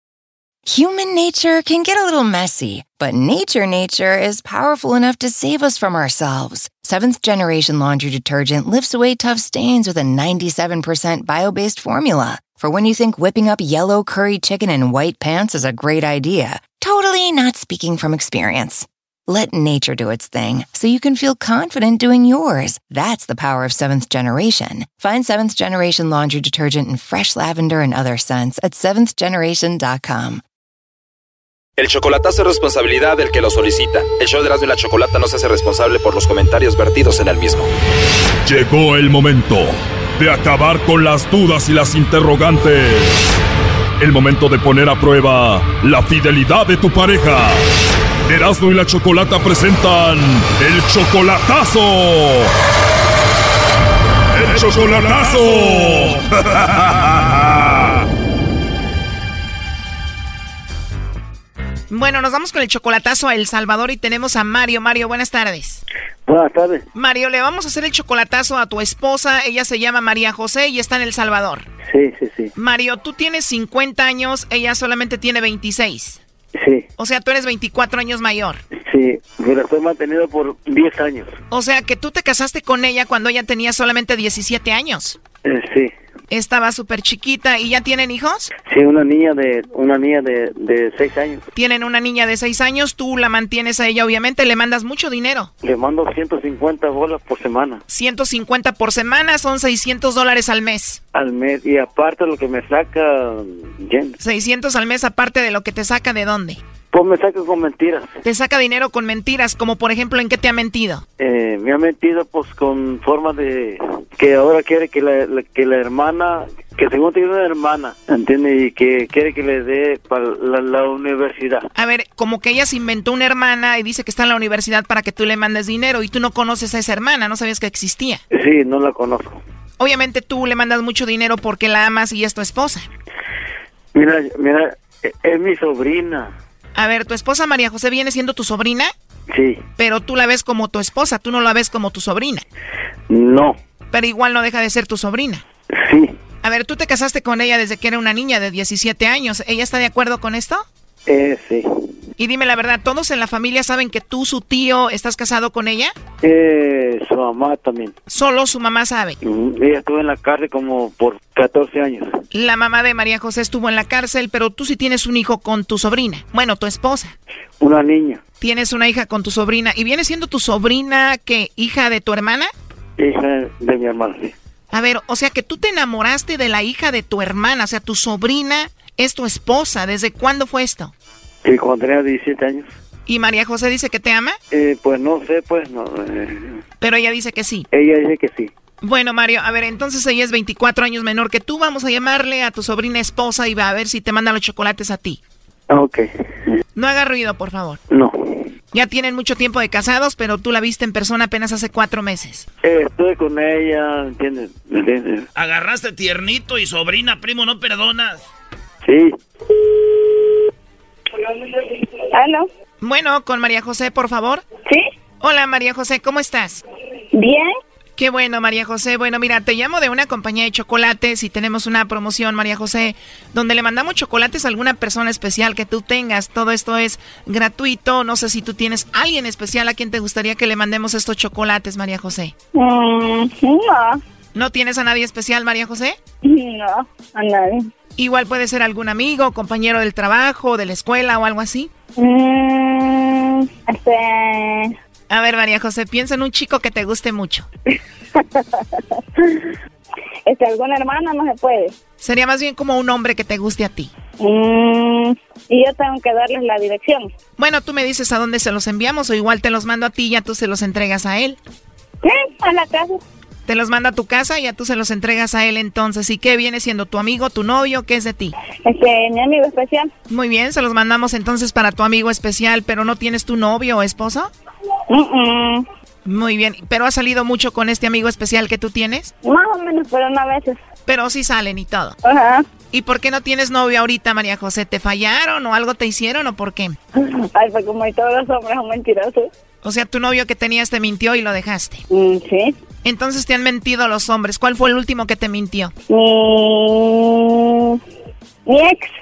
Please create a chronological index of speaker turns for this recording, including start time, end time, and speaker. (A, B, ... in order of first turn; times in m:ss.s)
0:00.7-0:30.4 A
0:31.8-0:37.7 B
0:38.4-0:43.4 C
0:44.0-0:47.6 C
0:48.3-0:52.5 C
0:54.4-0:58.0 C
1:01.9-1:05.8 D
1:06.3-1:06.9 E
1:06.9-1:11.6 D
1:11.9-1:12.5 E
1:12.6-1:16.2 D
1:16.6-1:16.9 E
1:17.0-1:18.6 D
1:18.8-1:21.3 E
1:21.5-1:25.2 D
1:25.4-1:25.9 E
1:26.3-1:28.5 D
1:28.6-1:31.4 E
1:31.6-1:35.5 D
1:35.6-1:37.8 E
1:37.9-1:41.0 D
1:41.1-1:44.2 E
1:44.2-1:46.6 D
1:46.9-1:48.2 E
1:48.2-1:51.0 D
1:51.2-2:01.7 E
2:01.8-2:08.2 D
2:08.3-2:09.4 E
2:09.8-2:12.9 D
2:13.9-2:16.3 E
2:16.8-2:18.9 D
2:19.3-2:19.6 E
2:19.8-2:22.4 D
2:23.1-2:23.6 E
2:23.9-2:25.4 D
2:25.7-2:26.2 E
2:26.4-2:30.6 D
2:31.1-2:31.7 E
2:32.2-2:35.9 D
2:36.2-2:37.9 E
2:38.1-2:39.2 D
2:39.2-2:42.2 E
2:42.3-2:47.2 D
2:47.6-2:48.2 E
2:48.4-2:52.5 D
2:53.0-2:54.4 E
2:54.7-3:00.9 D
3:01.4-3:02.7 E
3:03.1-3:04.4 D
3:04.5-3:06.6 E
3:06.8-3:07.7 D
3:07.7-3:08.5 E
3:08.8-3:15.2 D
3:15.7-3:16.1 E
3:16.8-3:17.8 D
3:17.9-3:18.2 E
3:18.7-3:22.5 D
3:22.6-3:25.3 E
3:25.4-3:28.2 F
3:28.8-3:29.1 E
3:32.0-3:32.5 G
3:32.8-3:34.4 D
3:35.2-3:36.6 D
3:37.1-3:37.5 G
3:38.0-3:52.3 D
3:52.5-3:54.0 G
3:54.4-3:56.0 D
3:56.2-3:57.7 G
3:58.0-4:01.7 D
4:02.0-4:04.7 G
4:05.1-4:07.5 D
4:08.2-4:09.5 G
4:10.3-4:11.8 G
4:12.0-4:13.9 D
4:14.2-4:17.1 G
4:17.4-4:21.4 D
4:22.0-4:23.0 G
4:23.5-4:28.3 D
4:28.6-4:29.9 G
4:30.1-4:34.3 D
4:34.9-4:35.6 G
4:36.0-4:39.1 D
4:39.2-4:40.6 G
4:40.9-4:42.0 D
4:42.0-4:42.5 G
4:42.7-4:46.8 D
4:47.0-4:49.3 G
4:49.6-4:51.8 D
4:51.9-4:52.6 G
4:52.8-4:55.7 D
4:55.9-4:57.8 G
4:58.5-4:58.9 G